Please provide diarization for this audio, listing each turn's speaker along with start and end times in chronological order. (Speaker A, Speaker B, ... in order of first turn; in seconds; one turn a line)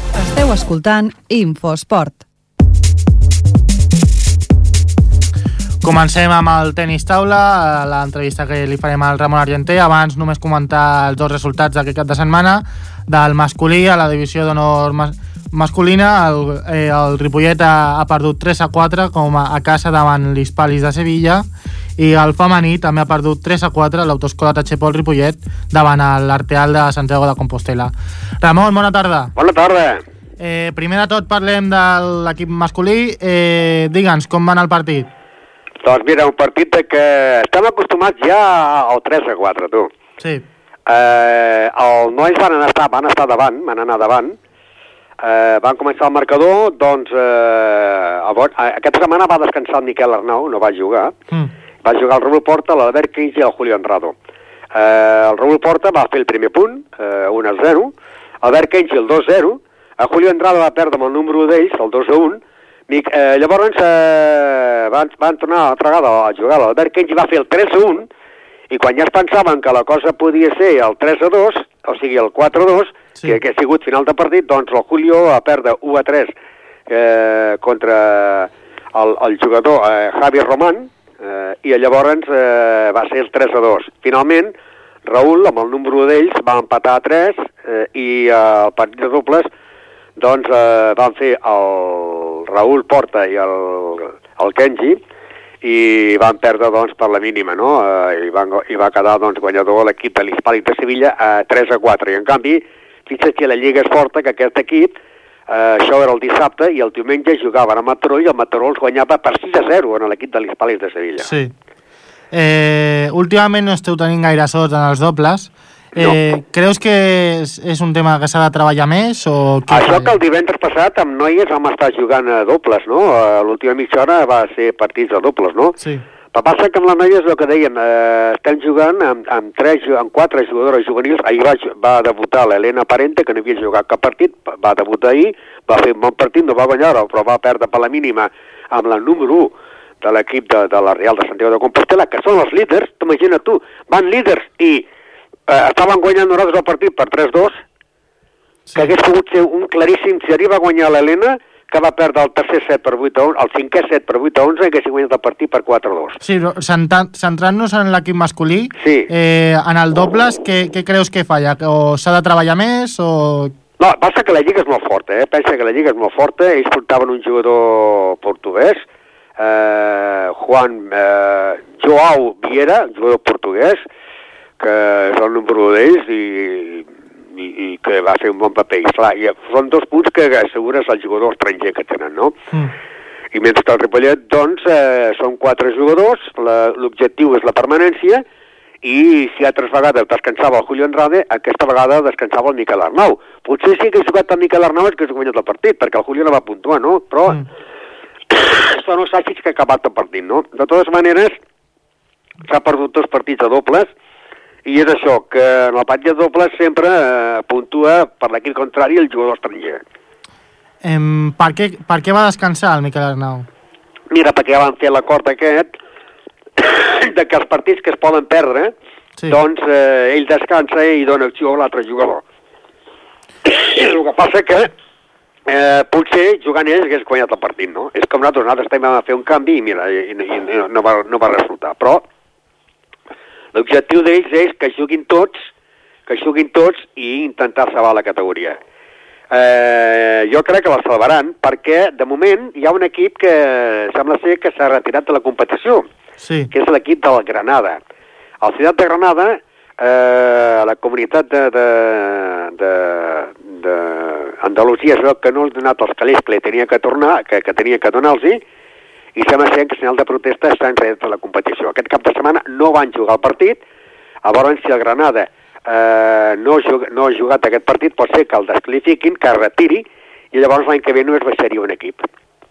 Speaker A: 0.2-2.2
Speaker B: 5.8-21.4
Speaker B: 22.0-29.3
Speaker C: 29.4-30.0
Speaker B: 30.4-35.1
Speaker C: 35.8-39.9
Speaker B: 40.2-40.5
Speaker C: 40.9-44.4
Speaker C: 45.2-51.1
Speaker C: 51.8-54.1
Speaker C: 54.7-68.1
Speaker C: 68.7-76.3
Speaker C: 76.9-84.5
Speaker C: 85.0-89.5
Speaker C: 90.2-95.0
Speaker C: 95.6-104.9
Speaker C: 105.5-111.3
Speaker B: 111.2-111.5
Speaker B: 112.3-120.2
Speaker C: 119.7-125.8
Speaker B: 125.8-126.0
Speaker C: 126.3-144.8
Speaker C: 145.5-147.6
Speaker C: 148.8-156.2
Speaker B: 156.2-163.5
Speaker C: 158.8-159.1
Speaker C: 163.8-168.8
Speaker C: 169.4-173.8
Speaker C: 174.6-182.4
Speaker C: 183.3-188.2
Speaker C: 188.8-197.4
Speaker C: 198.3-201.4
Speaker C: 202.4-203.9
Speaker C: 204.7-209.8
Speaker B: 210.8-213.5
Speaker C: 214.1-215.7
Speaker C: 216.6-218.7
Speaker C: 219.3-222.2
Speaker C: 223.4-224.7
Speaker C: 225.5-232.0
Speaker C: 233.5-235.4
Speaker C: 236.1-238.6
Speaker C: 239.3-245.8
Speaker B: 246.2-246.5
Speaker C: 246.5-247.8
Speaker C: 248.4-258.4
Speaker C: 259.1-263.6
Speaker C: 264.2-272.1